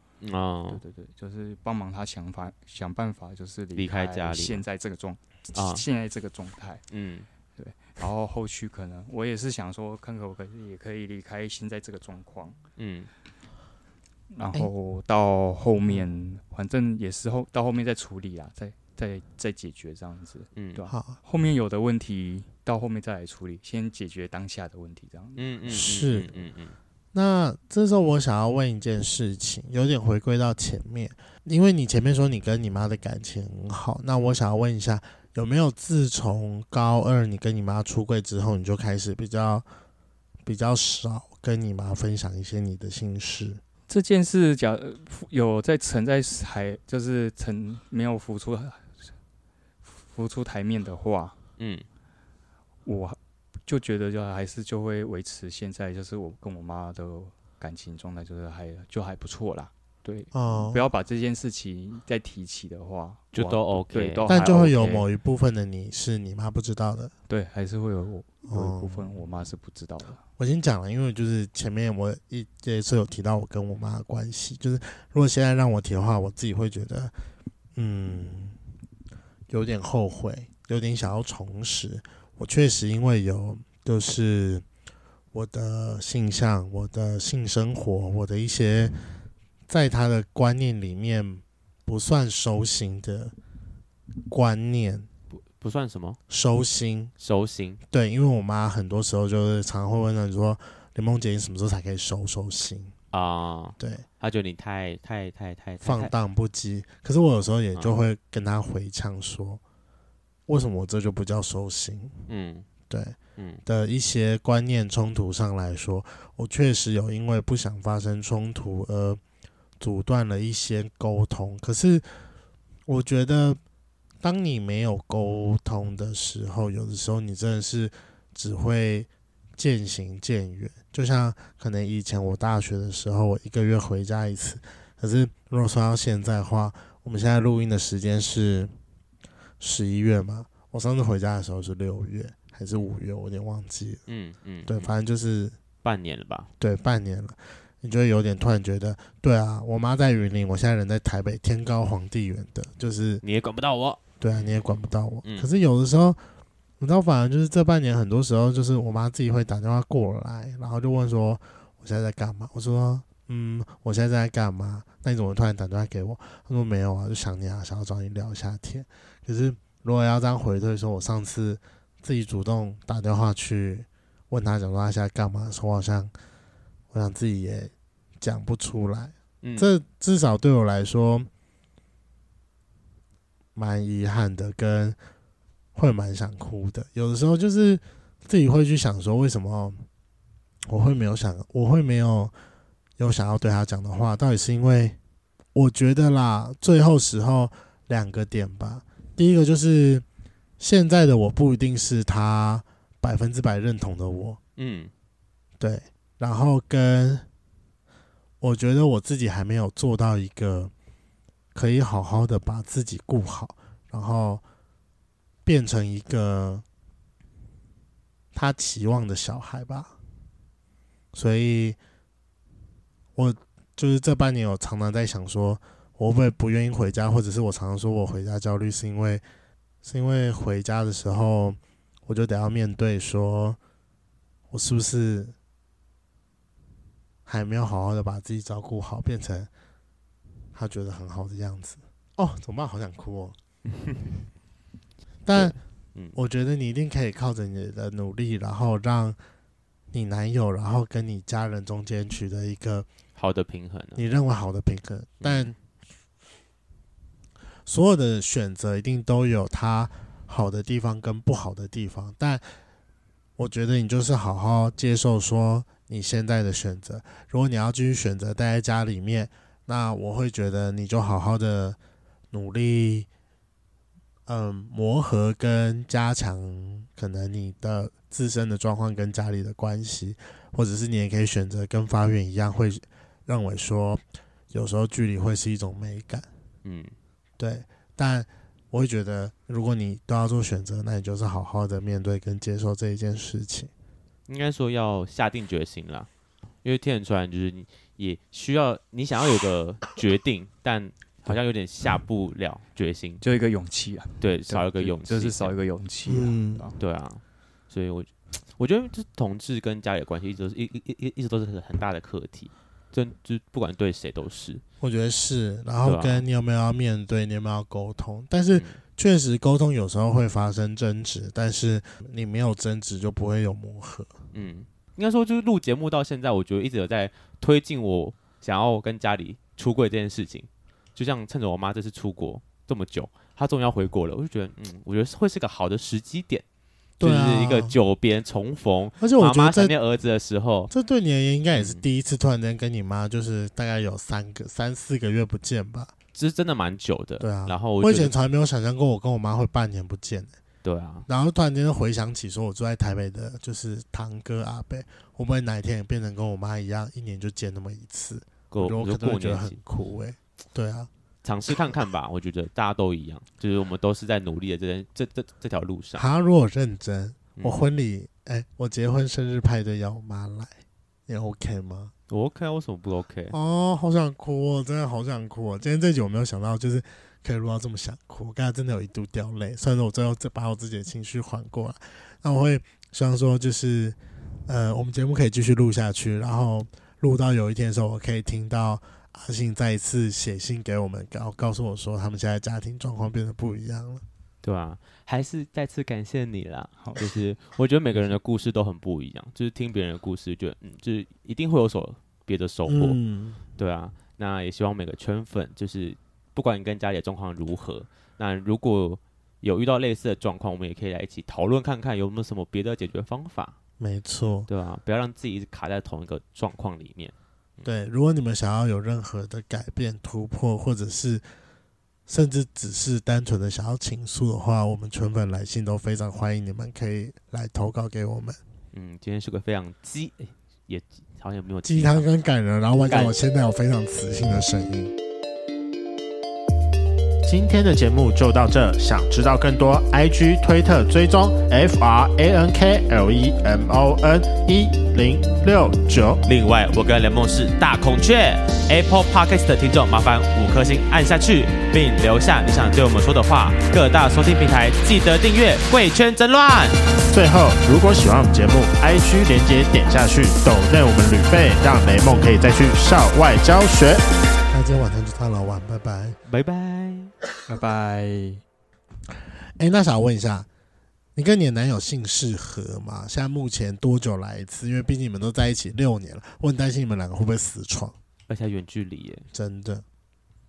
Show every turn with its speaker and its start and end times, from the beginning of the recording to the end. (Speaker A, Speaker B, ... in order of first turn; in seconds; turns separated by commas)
Speaker A: 0.2-0.8, Speaker B: 0.7-6.8, Speaker A: 3.8-4.6, Speaker A: 5.5-5.8, Speaker A: 6.9-7.3, Speaker B: 7.6-12.6, Speaker A: 12.8-13.1, Speaker B: 14.3-25.8, Speaker C: 20.9-21.2, Speaker A: 25.4-26.8, Speaker C: 25.7-26.3, Speaker C: 27.1-39.7, Speaker C: 40.4-43.6, Speaker B: 43.9-49.0, Speaker B: 49.9-51.4, Speaker A: 51.6-51.9, Speaker B: 52.9-65.1, Speaker C: 60.3-60.9, Speaker A: 63.3-64.3, Speaker C: 64.3-67.1, Speaker B: 67.3-70.2, Speaker C: 68.5-69.1, Speaker C: 70.4-77.1, Speaker C: 77.7-78.6, Speaker C: 79.5-84.6, Speaker C: 85.3-89.0, Speaker C: 89.7-93.3, Speaker C: 94.3-95.1, Speaker A: 95.3-96.2, Speaker C: 96.3-97.1, Speaker A: 97.2-97.8, Speaker C: 97.9-102.9, Speaker A: 103.1-106.1, Speaker C: 103.8-104.0, Speaker C: 105.8-109.6, Speaker C: 110.5-112.2, Speaker A: 112.3-112.7, Speaker C: 112.9-119.2, Speaker C: 119.8-122.2, Speaker C: 122.9-123.6, Speaker C: 124.2-138.7, Speaker C: 139.6-144.0, Speaker A: 144.1-144.9, Speaker C: 144.7-145.5, Speaker A: 145.8-146.5, Speaker C: 146.6-153.2, Speaker A: 153.2-154.5, Speaker C: 154.2-156.2, Speaker C: 156.8-176.1, Speaker C: 176.9-181.3, Speaker A: 179.4-179.7, Speaker C: 183.5-185.0, Speaker C: 185.7-189.8, Speaker C: 190.7-192.3, Speaker C: 193.0-195.0, Speaker C: 195.5-200.0, Speaker C: 200.6-204.4, Speaker A: 204.6-204.9, Speaker C: 205.6-207.2, Speaker C: 208.4-210.7, Speaker C: 211.5-214.4, Speaker C: 215.4-216.6, Speaker C: 218.3-219.9, Speaker C: 221.1-221.8, Speaker C: 223.2-229.2, Speaker C: 229.8-233.6, Speaker C: 234.5-235.3, Speaker C: 237.2-239.5, Speaker C: 240.5-243.3, Speaker C: 245.2-245.6, Speaker A: 245.3-246.2, Speaker C: 246.1-249.2, Speaker C: 249.9-252.8, Speaker A: 253.2-254.0, Speaker C: 253.9-255.5, Speaker A: 255.2-255.5, Speaker C: 257.6-262.4, Speaker C: 263.4-271.8, Speaker C: 272.3-273.1, Speaker C: 274.3-286.3, Speaker A: 286.6-286.9, Speaker C: 287.4-293.7, Speaker A: 294.3-296.1, Speaker A: 296.6-303.2, Speaker B: 303.2-306.8, Speaker A: 304.2-305.6, Speaker C: 306.1-306.7, Speaker A: 306.8-314.6, Speaker C: 314.8-324.1, Speaker A: 315.8-316.2, Speaker A: 318.5-318.8, Speaker A: 324.3-336.4, Speaker A: 337.0-340.7, Speaker C: 337.0-337.8, Speaker C: 339.0-339.7, Speaker C: 340.7-345.9, Speaker A: 341.5-341.8, Speaker A: 346.1-348.1, Speaker C: 347.2-350.4, Speaker A: 350.6-351.1, Speaker C: 351.1-360.9, Speaker A: 358.5-359.6, Speaker A: 361.2-366.0, Speaker C: 365.9-370.5, Speaker A: 367.4-367.6, Speaker C: 371.1-371.9, Speaker A: 372.1-373.4, Speaker C: 373.3-394.0, Speaker A: 394.4-403.0, Speaker B: 396.8-397.0, Speaker C: 402.6-403.4, Speaker A: 403.6-413.5, Speaker C: 413.8-414.5, Speaker A: 414.5-417.6, Speaker C: 417.6-421.2, Speaker C: 422.1-428.4, Speaker A: 428.7-432.1, Speaker C: 431.6-434.9, Speaker A: 432.7-433.1, Speaker C: 437.2-446.2, Speaker A: 446.2-456.8, Speaker C: 457.1-466.2, Speaker A: 466.3-467.1, Speaker B: 467.5-468.4, Speaker C: 469.6-470.5, Speaker C: 471.1-477.9, Speaker A: 478.3-479.3, Speaker C: 479.3-479.8